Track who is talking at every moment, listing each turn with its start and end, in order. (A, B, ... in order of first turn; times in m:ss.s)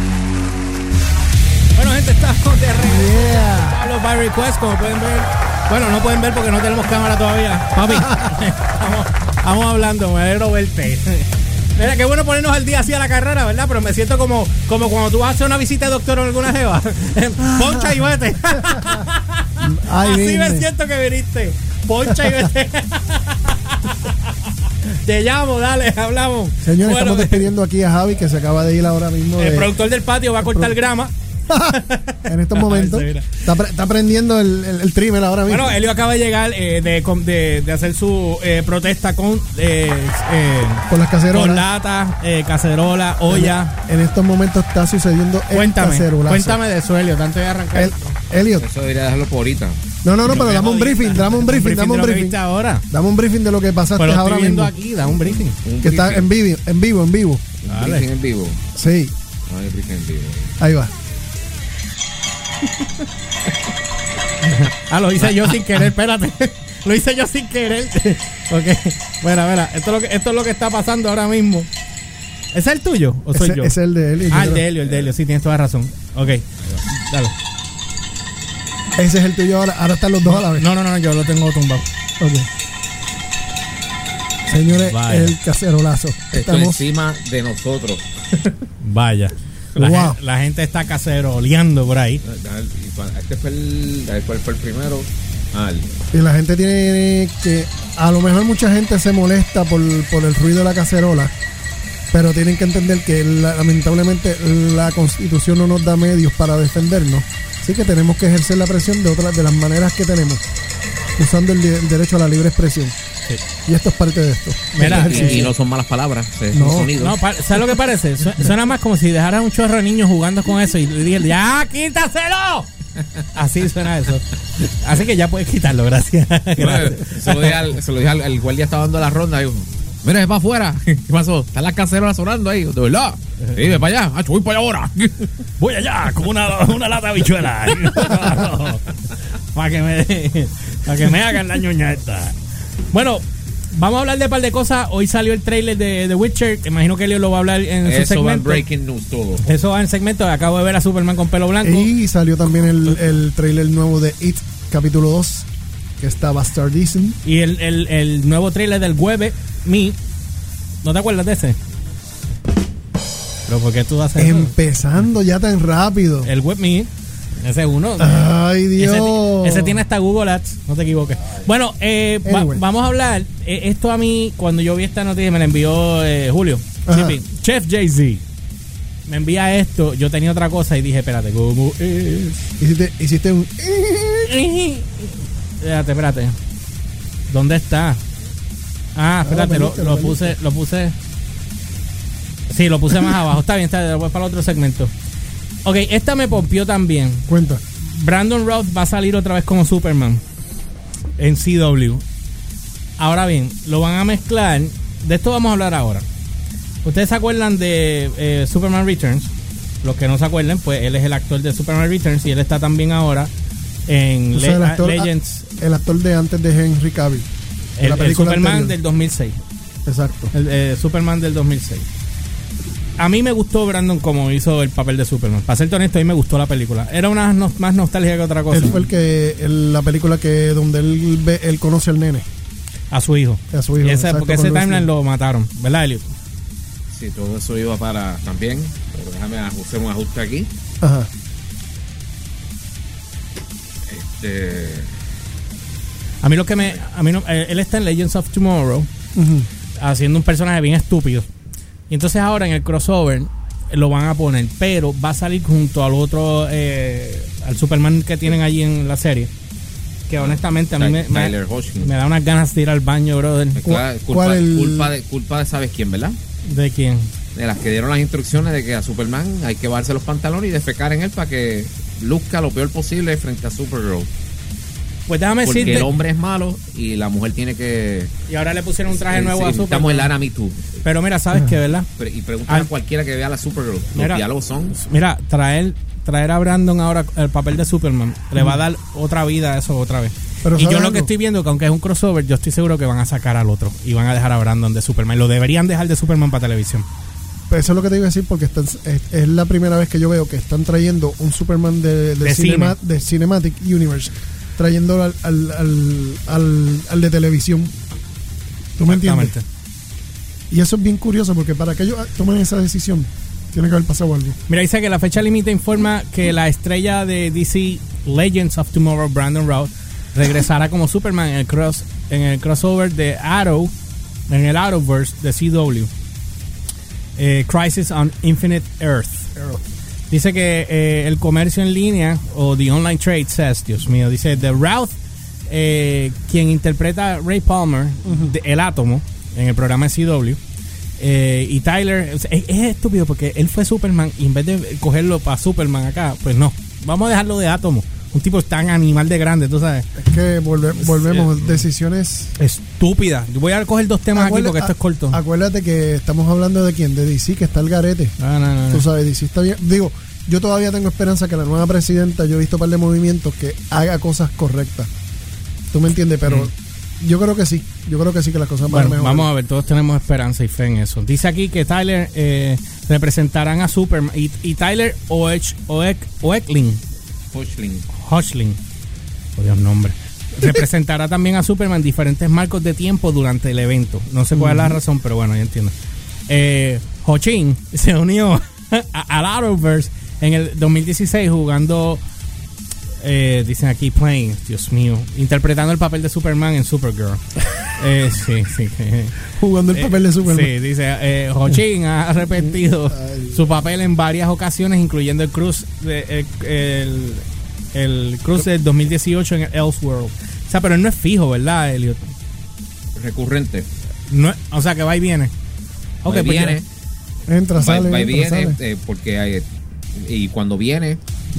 0:01.7-0:24.3 A
0:02.8-0:03.8 B
0:07.9-0:08.3 B
0:17.4-0:19.0 B
0:19.6-0:20.7 B
0:22.1-0:22.5 B
0:24.8-0:27.5 A
0:26.6-0:29.7 B
0:29.4-0:31.1 A
0:30.4-0:30.7 B
0:31.5-0:35.8 B
0:31.7-0:33.3 A
0:35.5-0:43.7 A
0:40.9-0:41.7 B
0:43.3-0:46.6 B
0:45.5-0:48.2 A
0:47.7-0:48.7 B
0:48.6-0:49.8 C
0:50.0-0:52.4 B
0:50.2-0:52.8 A
0:52.9-0:54.7 B
0:54.0-0:55.6 A
0:55.2-0:56.3 C
0:55.8-0:57.4 B
0:57.6-0:58.6 C
0:57.7-0:58.1 A
0:58.8-0:59.1 B
0:59.5-1:00.5 C
1:00.6-1:00.9 B
1:04.4-1:11.7 A
1:05.2-1:05.8 C
1:12.5-1:13.8 A
1:13.3-1:14.7 B
1:14.3-1:17.3 A
1:19.0-1:20.7 B
1:20.2-1:21.8 A
1:22.2-1:22.5 B
1:24.5-1:26.8 B
1:24.7-1:25.4 A
1:26.3-1:28.6 C
1:28.8-1:32.2 A
1:29.8-1:30.2 B
1:32.2-1:36.0 C
1:36.1-1:41.3 B
1:42.1-1:50.4 B
1:51.2-1:52.9 B
1:53.6-1:55.5 B
1:54.8-1:55.5 A
1:54.8-1:57.2 C
1:56.5-1:56.9 B
1:57.0-2:02.7 A
2:03.3-2:07.6 A
2:06.6-2:15.3 C
2:15.6-2:18.8 A
2:18.0-2:18.4 C
2:19.5-2:22.3 A
2:22.9-2:28.6 A
2:27.8-2:29.4 C
2:29.4-2:31.9 A
2:31.6-2:35.5 B
2:36.0-2:37.2 B
2:37.2-2:40.0 A
2:40.8-2:41.6 A
2:43.5-2:44.5 A
2:44.2-2:46.3 B
2:46.2-2:58.2 A
2:48.0-2:49.8 B
2:52.2-2:52.6 B
2:56.8-2:57.2 B
2:59.1-3:02.5 A
3:02.6-3:04.4 B
3:04.2-3:06.4 A
3:07.3-3:08.0 A
3:08.9-3:10.9 A
3:09.2-3:10.4 B
3:12.5-3:14.9 A
3:15.6-3:20.2 A
3:17.3-3:17.6 B
3:21.2-3:22.0 A
3:23.0-3:26.0 A
3:26.8-3:29.3 A
3:29.8-3:33.3 A
3:33.9-3:35.5 A
3:34.3-3:37.3 B
3:37.8-3:39.4 A
3:37.8-3:38.8 B
3:39.8-3:40.3 B
3:40.3-3:41.8 A
3:43.0-3:48.8 A
3:48.5-3:52.3 B
3:52.9-3:56.1 A
3:53.5-3:54.9 B
3:56.9-4:00.5 C
4:00.8-4:01.1 B
4:03.9-4:04.9 C
4:06.2-4:08.9 A
4:09.1-4:09.5 B
4:09.8-4:11.3 A
4:11.9-4:19.3 A
4:20.1-4:23.7 A
4:20.2-4:21.9 C
4:23.6-4:26.2 C
4:23.6-4:24.9 B
4:26.4-4:27.1 A
4:27.3-4:34.1 C
4:35.1-4:35.9 A
4:35.4-4:38.1 C
4:38.3-4:40.1 A
4:38.9-4:40.6 C
4:40.8-4:41.9 A
4:42.0-4:44.8 C
4:43.9-4:56.9 A
4:48.4-4:48.6 B
4:50.4-4:51.1 B
4:57.5-5:07.7 B
5:02.2-5:02.8 A
5:08.8-5:09.3 B
5:08.9-5:09.4 A
5:10.5-5:14.4 B
5:14.5-5:23.7 A
5:24.3-5:25.9 A
5:27.2-5:29.5 A
5:30.1-5:34.9 A
5:35.5-5:40.4 A
5:38.0-5:38.3 B
5:41.0-5:49.9 A
5:50.0-5:52.4 B
5:50.8-5:51.6 A
5:52.4-5:55.2 A
5:54.1-5:58.1 B
5:58.2-5:58.9 A
5:58.7-6:04.9 B
6:05.7-6:09.3 B
6:08.7-6:16.8 A
6:17.3-6:17.9 C
6:17.9-6:18.6 A
6:19.4-6:25.7 A
6:24.3-6:24.8 B
6:26.3-6:32.0 A
6:33.0-6:37.2 A
6:37.8-6:39.2 A
6:39.4-6:40.5 B
6:39.7-6:52.1 A
6:42.3-6:43.5 B
6:52.9-6:53.7 C
6:54.1-6:55.3 A
6:56.0-6:56.6 A
6:56.0-6:56.6 C
6:57.3-6:58.6 B
6:57.6-7:01.0 C